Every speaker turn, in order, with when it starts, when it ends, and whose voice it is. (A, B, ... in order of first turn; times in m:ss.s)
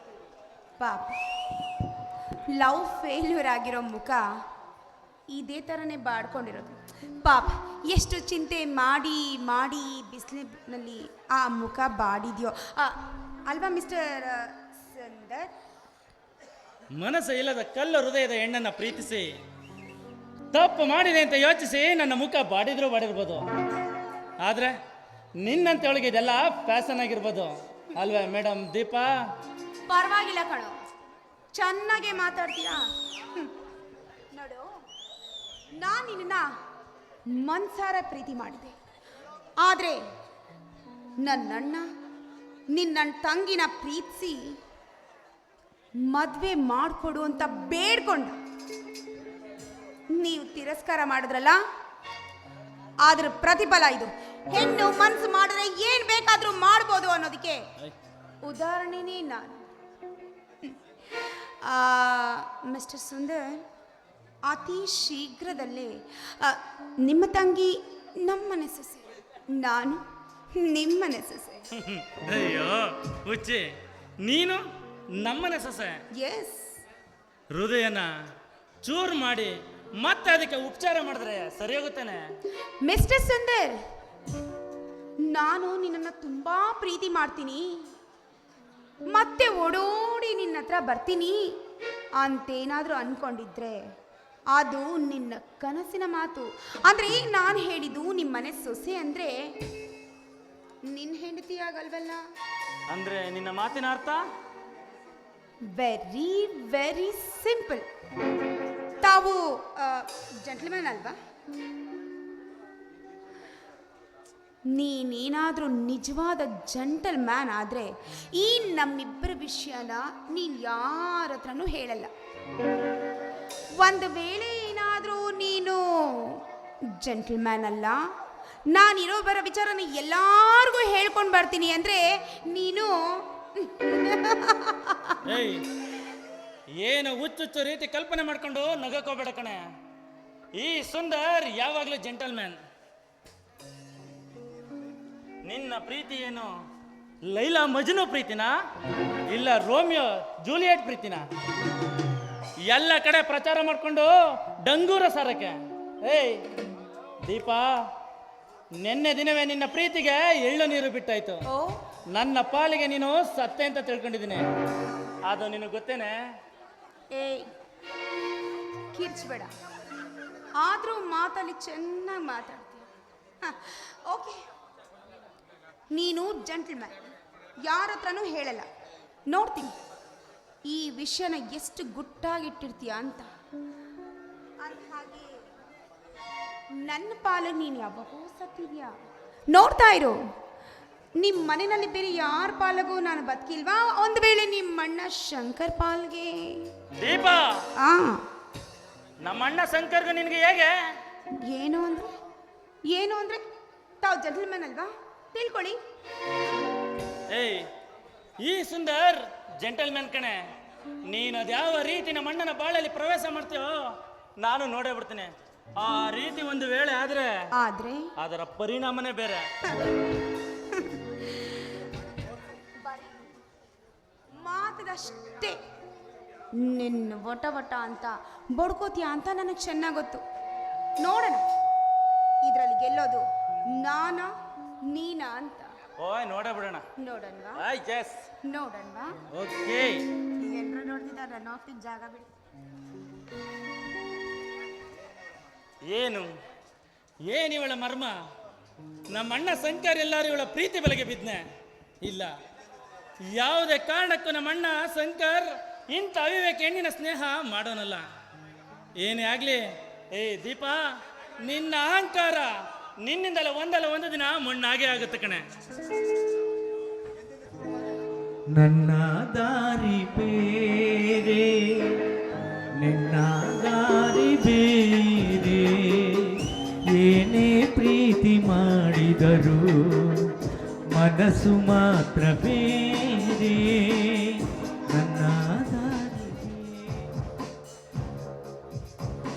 0:00.8-0:01.2 A
0:02.6-0:04.2 A
0:05.3-0:13.0 A
0:13.5-0:15.5 A
0:16.9-0:19.3 B
0:20.5-0:23.4 B
0:24.4-0:24.7 B
0:25.4-0:29.1 B
0:29.9-0:30.8 A
0:31.5-0:32.8 A
0:34.3-0:34.6 A
0:35.8-0:36.5 A
0:37.3-0:38.8 A
0:39.6-0:40.0 A
0:41.2-0:41.9 A
0:42.7-0:44.6 A
0:46.0-0:48.4 A
0:50.1-0:51.6 A
0:53.0-0:57.6 A
0:58.4-0:59.6 A
1:00.7-1:03.6 A
1:04.4-1:11.6 A
1:11.8-1:13.6 B
1:14.2-1:14.6 B
1:15.2-1:16.0 B
1:16.2-1:16.7 A
1:17.5-1:18.1 B
1:18.8-1:22.2 B
1:22.8-1:23.8 A
1:25.3-1:27.8 A
1:29.1-1:31.5 A
1:32.2-1:33.8 A
1:34.5-1:39.3 A
1:40.9-1:42.2 A
1:42.9-1:44.2 B
1:45.7-1:47.8 A
1:49.0-1:51.2 A
1:54.7-2:02.1 A
2:03.8-2:06.4 A
2:07.0-2:08.0 A
2:08.7-2:15.2 A
2:15.3-2:15.6 B
2:16.8-2:19.6 B
2:20.6-2:22.6 B
2:25.4-2:26.5 B
2:27.3-2:28.5 B
2:29.3-2:31.2 B
2:32.7-2:34.1 B
2:34.6-2:36.4 B
2:37.2-2:37.8 B
2:38.8-2:41.4 B
2:42.1-2:44.4 B
2:45.3-2:46.2 B
2:47.1-2:47.5 A
2:48.9-2:49.5 A
2:50.6-2:52.8 A
2:53.4-2:54.4 A
2:55.9-2:57.0 A
2:57.6-2:58.7 A
2:59.3-2:59.7 A
3:00.7-3:03.3 A
3:04.6-3:05.4 A
3:06.8-3:08.9 A
3:09.5-3:10.2 A
3:11.2-3:16.7 A
3:17.0-3:17.5 B
3:17.8-3:18.2 A
3:19.2-3:20.7 B
3:21.5-3:22.1 A
3:22.9-3:23.4 A
3:24.0-3:25.8 A
3:27.3-3:27.6 B
3:28.4-3:30.4 B
3:31.1-3:33.8 B
3:34.4-3:37.3 B
3:37.6-3:38.0 A
3:38.2-3:39.4 B
3:44.4-3:45.6 A
3:46.6-3:50.2 A
3:51.0-3:51.4 A
3:52.4-3:53.2 A
3:53.8-3:54.3 A
3:54.9-3:55.7 A
3:56.0-3:56.8 B
3:57.0-3:57.6 A
3:57.6-3:58.3 B
3:58.4-3:59.1 A
3:59.3-4:00.0 B
4:00.4-4:02.3 A
4:05.9-4:06.3 B
4:07.2-4:08.2 B
4:09.1-4:11.4 B
4:12.0-4:12.3 B
4:13.3-4:18.0 B
4:19.0-4:20.8 B
4:21.4-4:22.5 B
4:23.0-4:25.4 B
4:28.5-4:32.0 C
4:32.8-4:40.3 C
4:40.9-4:47.1 C